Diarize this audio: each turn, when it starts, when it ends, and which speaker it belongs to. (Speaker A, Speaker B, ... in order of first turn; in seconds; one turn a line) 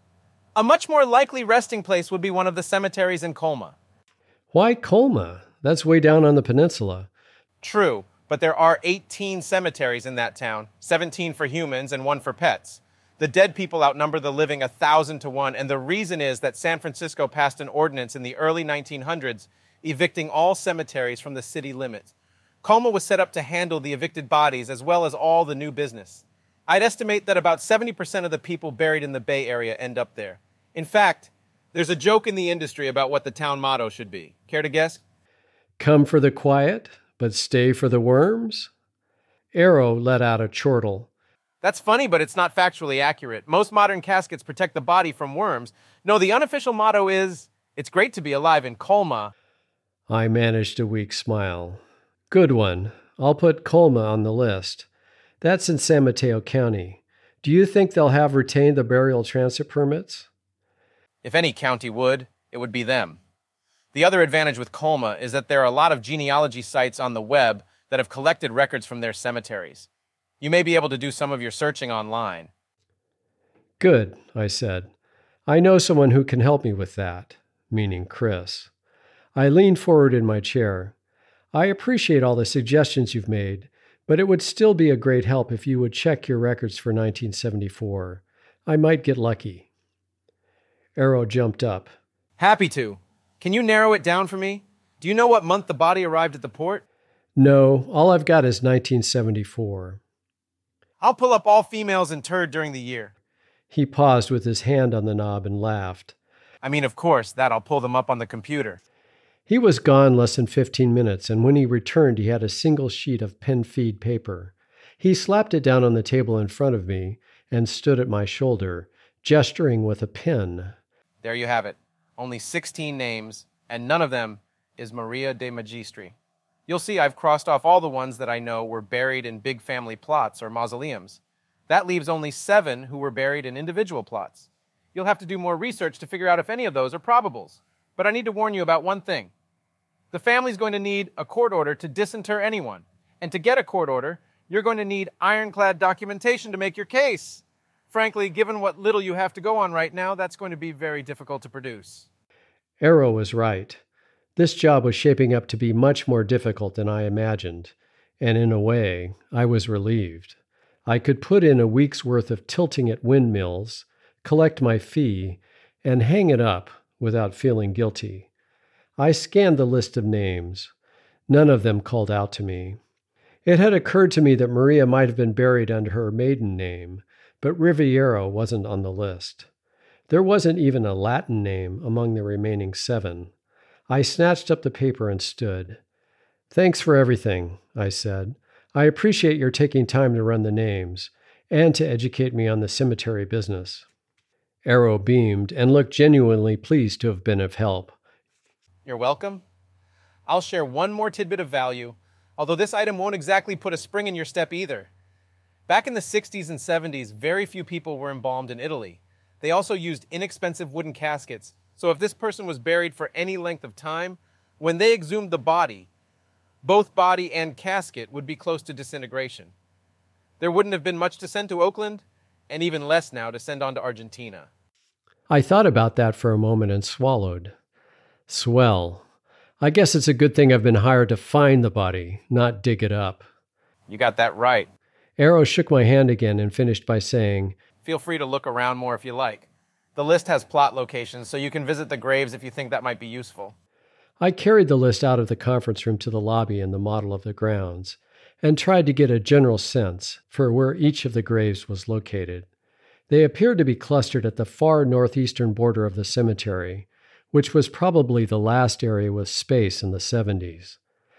Speaker A: 0.6-3.8
Speaker B: 4.5-7.1
Speaker A: 7.6-22.1
Speaker A: 22.6-35.0
Speaker B: 35.8-38.7
Speaker B: 39.5-41.1
Speaker A: 41.6-49.3
Speaker B: 50.1-54.9
Speaker B: 55.4-60.3
Speaker A: 61.2-63.2
Speaker A: 63.9-69.9
Speaker A: 70.4-72.5
Speaker B: 73.8-74.9
Speaker B: 75.5-78.7
Speaker B: 79.3-80.9
Speaker B: 81.5-89.7
Speaker B: 91.0-91.9
Speaker A: 92.4-96.8
Speaker B: 97.4-100.0
Speaker A: 101.0-103.1
Speaker B: 103.7-106.2
Speaker A: 106.6-108.8
Speaker B: 109.5-120.8
Speaker A: 121.2-126.2
Speaker A: 126.7-139.3
Speaker A: 140.1-152.1
Speaker B: 152.8-153.8
Speaker B: 154.4-168.3
Speaker B: 169.0-170.7
Speaker B: 171.3-172.8
Speaker B: 173.5-179.5
Speaker B: 180.1-183.3
Speaker B: 183.9-185.8
Speaker B: 186.5-193.9
Speaker B: 194.7-198.0
Speaker A: 198.9-199.4
Speaker A: 200.3-204.9
Speaker A: 205.7-215.9
Speaker A: 216.6-219.5
Speaker A: 220.4-224.5
Speaker B: 225.3-227.6
Speaker B: 228.3-229.1
Speaker B: 229.6-233.3
Speaker A: 233.9-234.7
Speaker B: 235.2-237.6
Speaker A: 237.8-243.5
Speaker B: 244.2-252.5
Speaker B: 253.1-260.8